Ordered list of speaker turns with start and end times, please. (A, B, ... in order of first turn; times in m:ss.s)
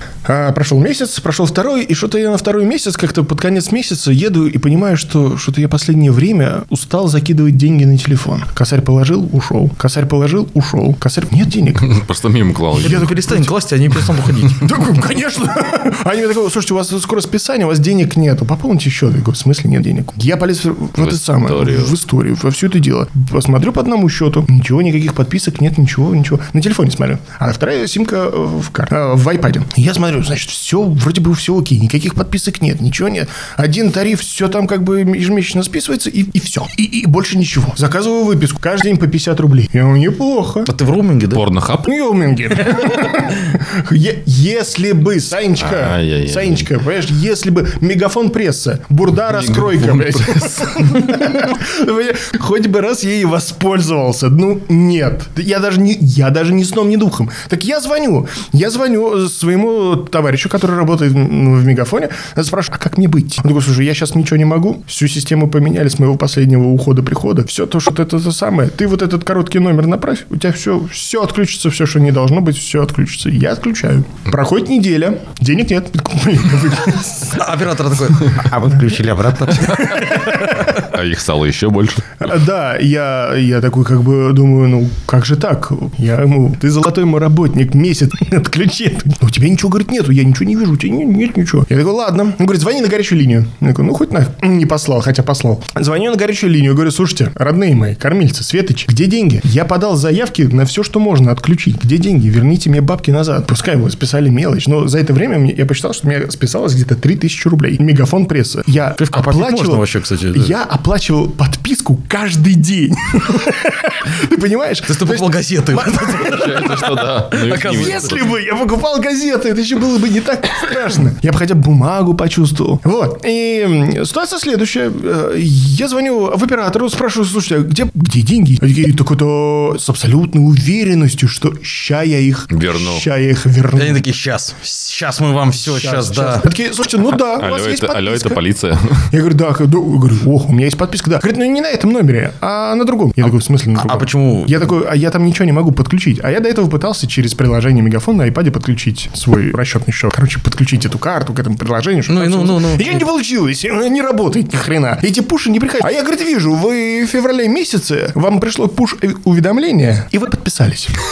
0:00.2-0:12.0 A
0:11.8-0:13.2 B
0:12.7-0:14.8 C
0:12.8-0:13.5 A
0:14.5-0:40.7 A
0:21.0-0:21.9 B
0:40.7-0:41.4 C
0:41.3-0:41.9 B
0:41.8-1:17.5 A
0:45.6-0:46.7 B
0:49.3-0:51.0 B
1:17.3-1:20.2 C
1:19.6-1:20.8 A
1:20.0-1:22.2 B
1:22.2-1:57.0 A
1:49.0-1:50.5 C
1:54.9-1:58.1 C
1:56.2-1:58.3 B
1:57.6-2:14.0 A
2:12.5-2:13.0 B
2:13.7-2:16.5 C
2:15.6-2:18.4 A
2:17.3-2:19.1 B
2:19.1-2:41.0 A
2:23.8-2:24.7 C
2:32.1-2:33.0 C